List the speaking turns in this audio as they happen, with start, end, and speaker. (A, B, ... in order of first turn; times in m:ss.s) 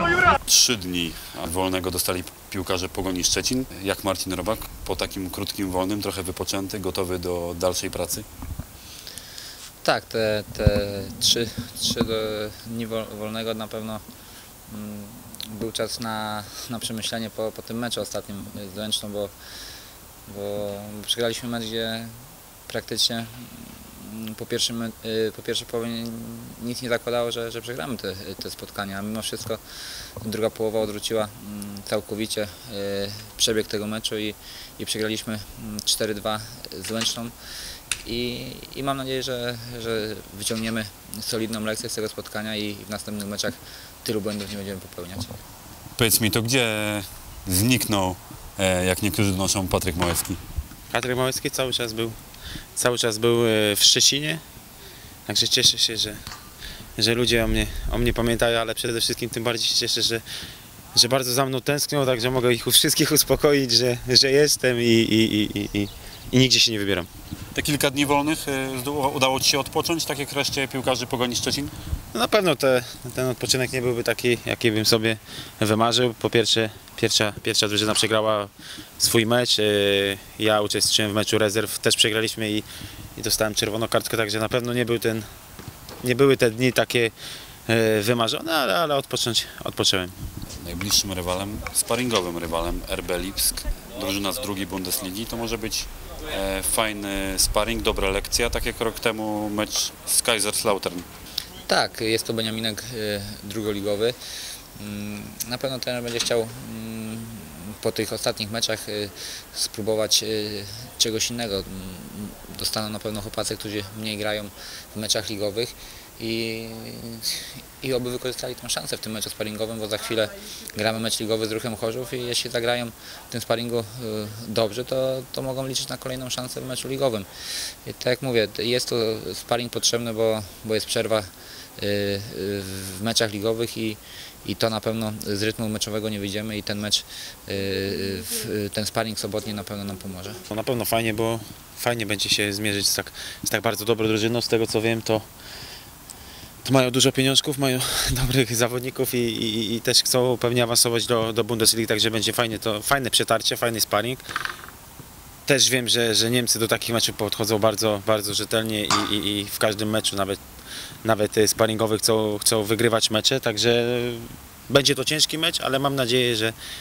0:00.4-0:08.2 A
0:09.8-0:14.0 B
0:14.7-0:19.3 B
0:20.2-0:22.2 B
0:22.7-0:29.6 B
0:30.2-0:37.3 B
0:38.0-0:45.4 B
0:46.0-0:50.4 A
0:50.9-0:52.2 C
0:52.7-0:54.4 C
0:55.3-0:56.2 C
0:57.0-1:00.2 C
1:00.9-1:07.1 C
1:07.5-1:11.7 A
1:12.1-1:25.2 C
1:26.0-1:27.1 C
1:27.7-1:30.1 C
1:30.6-1:41.1 A
1:41.7-1:44.2 B
1:44.8-2:20.4 B
2:20.5-2:25.2 C
2:26.6-2:34.2 C
2:35.5-2:40.4 C
2:41.0-2:46.6 C